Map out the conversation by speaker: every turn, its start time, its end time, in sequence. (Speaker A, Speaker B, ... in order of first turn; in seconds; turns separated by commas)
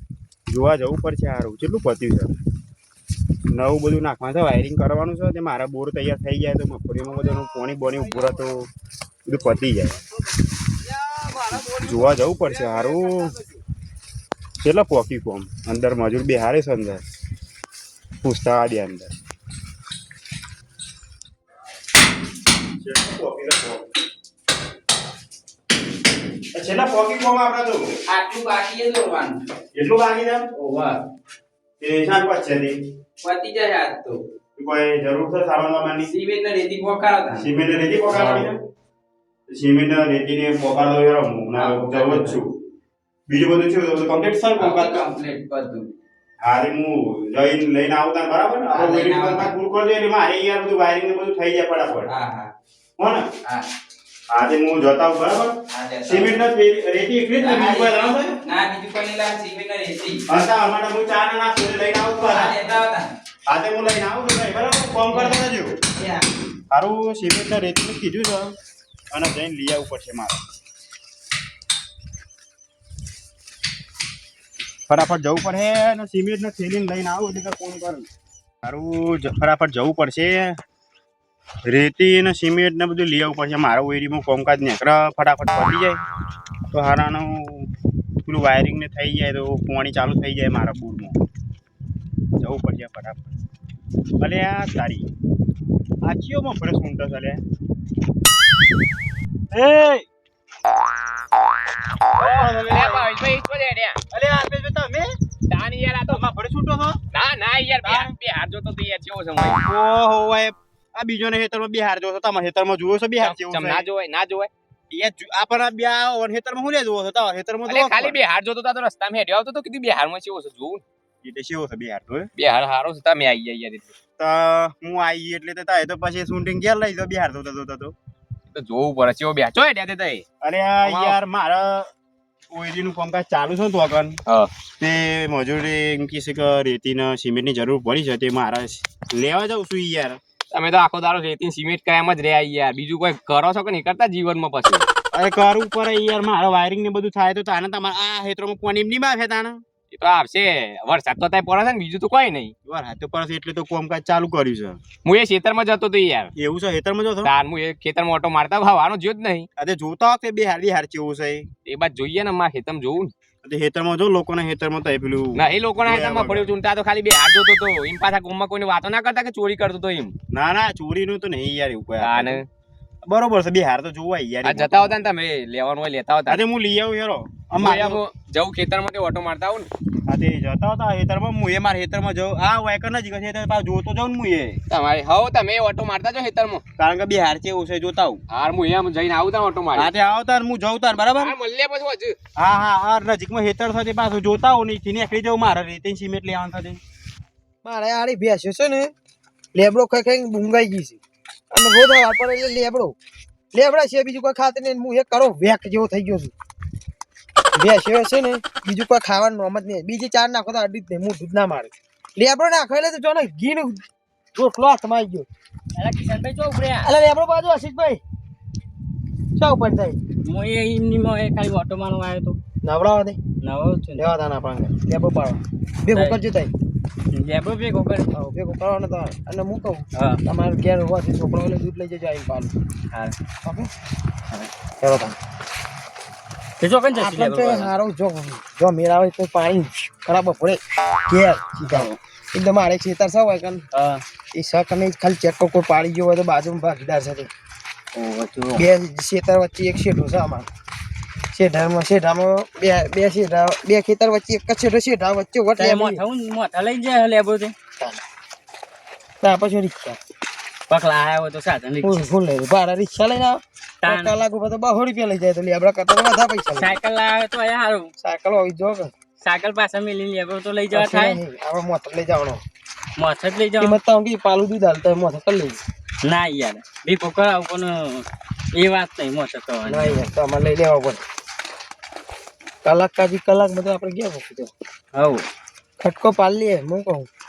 Speaker A: 0.5-2.3, Speaker A: 3.5-8.7, Speaker B: 7.7-8.1, Speaker A: 9.2-10.0, Speaker B: 10.9-13.6, Speaker A: 11.7-13.3, Speaker A: 14.6-17.0, Speaker A: 18.2-19.1, Speaker A: 22.8-23.8, Speaker A: 26.5-27.9, Speaker B: 28.1-29.3, Speaker A: 29.7-30.5, Speaker A: 31.8-32.8, Speaker A: 34.5-36.1, Speaker C: 36.2-37.3, Speaker A: 37.4-38.6, Speaker C: 38.1-38.5, Speaker A: 39.5-42.4, Speaker C: 41.5-42.4, Speaker A: 43.3-45.1, Speaker C: 44.5-45.9, Speaker A: 46.4-52.1, Speaker C: 48.7-49.5, Speaker C: 52.1-52.5, Speaker A: 53.0-53.3, Speaker A: 54.3-55.5, Speaker C: 55.7-56.4, Speaker A: 56.0-58.3, Speaker C: 57.4-57.9, Speaker C: 58.4-60.2, Speaker A: 60.3-62.5, Speaker C: 62.5-62.8, Speaker A: 63.5-65.8, Speaker A: 66.7-68.5, Speaker A: 69.1-70.4, Speaker A: 74.9-78.0, Speaker A: 78.6-80.5, Speaker A: 81.7-86.0, Speaker A: 86.7-87.7, Speaker A: 88.2-91.2, Speaker A: 92.4-93.3, Speaker A: 94.2-95.1, Speaker A: 96.0-97.4, Speaker A: 99.5-100.0, Speaker A: 102.2-103.1, Speaker C: 102.2-104.0, Speaker A: 104.1-105.1, Speaker C: 105.5-106.2, Speaker A: 106.1-107.0, Speaker C: 107.1-109.6, Speaker A: 107.8-108.1, Speaker A: 109.6-113.9, Speaker C: 113.2-114.5, Speaker A: 114.9-118.2, Speaker C: 117.7-120.8, Speaker A: 121.2-122.3, Speaker C: 122.4-123.9, Speaker A: 124.2-127.9, Speaker C: 128.5-130.2, Speaker A: 130.4-131.9, Speaker C: 130.8-131.2, Speaker A: 132.5-134.2, Speaker A: 134.8-140.2, Speaker C: 140.5-144.9, Speaker A: 145.1-149.6, Speaker C: 149.9-152.5, Speaker A: 152.6-154.8, Speaker C: 155.0-156.3, Speaker A: 156.3-157.3, Speaker C: 157.2-159.5, Speaker A: 159.6-161.5, Speaker C: 161.7-163.1, Speaker A: 163.4-166.5, Speaker C: 165.3-170.1, Speaker A: 170.3-172.4, Speaker C: 172.0-172.4, Speaker A: 173.1-175.0, Speaker C: 174.4-176.4, Speaker A: 176.3-178.0, Speaker C: 177.6-179.7, Speaker A: 180.1-184.6, Speaker C: 184.7-186.6, Speaker A: 186.8-188.2, Speaker C: 188.3-189.9, Speaker A: 189.7-191.3, Speaker C: 191.2-192.2, Speaker A: 192.3-196.8, Speaker D: 197.6-198.9, Speaker D: 199.5-201.0, Speaker D: 201.5-202.9, Speaker D: 203.5-206.3, Speaker D: 207.6-213.8, Speaker D: 214.3-215.3, Speaker E: 215.7-216.9, Speaker D: 216.8-218.0, Speaker D: 219.4-220.0, Speaker E: 220.2-222.4, Speaker D: 222.6-223.2, Speaker E: 223.4-224.1, Speaker D: 224.0-226.5, Speaker E: 225.9-226.2, Speaker E: 227.1-228.1, Speaker D: 228.1-232.5, Speaker E: 229.9-230.2, Speaker D: 234.8-235.1, Speaker E: 236.6-237.7, Speaker D: 236.9-243.6, Speaker E: 243.7-244.0, Speaker D: 244.3-247.3, Speaker E: 247.9-248.6, Speaker D: 248.5-250.4, Speaker D: 251.3-256.0, Speaker E: 255.6-257.5, Speaker D: 259.2-260.0, Speaker E: 260.7-262.1, Speaker D: 261.8-266.8, Speaker E: 263.8-264.1, Speaker E: 266.6-267.9, Speaker D: 268.0-268.9, Speaker E: 269.2-271.2, Speaker D: 270.7-272.4, Speaker E: 273.0-273.7, Speaker D: 273.6-275.6, Speaker E: 276.0-280.1, Speaker D: 279.6-281.0, Speaker D: 282.6-284.5, Speaker E: 284.9-285.2, Speaker D: 285.8-287.1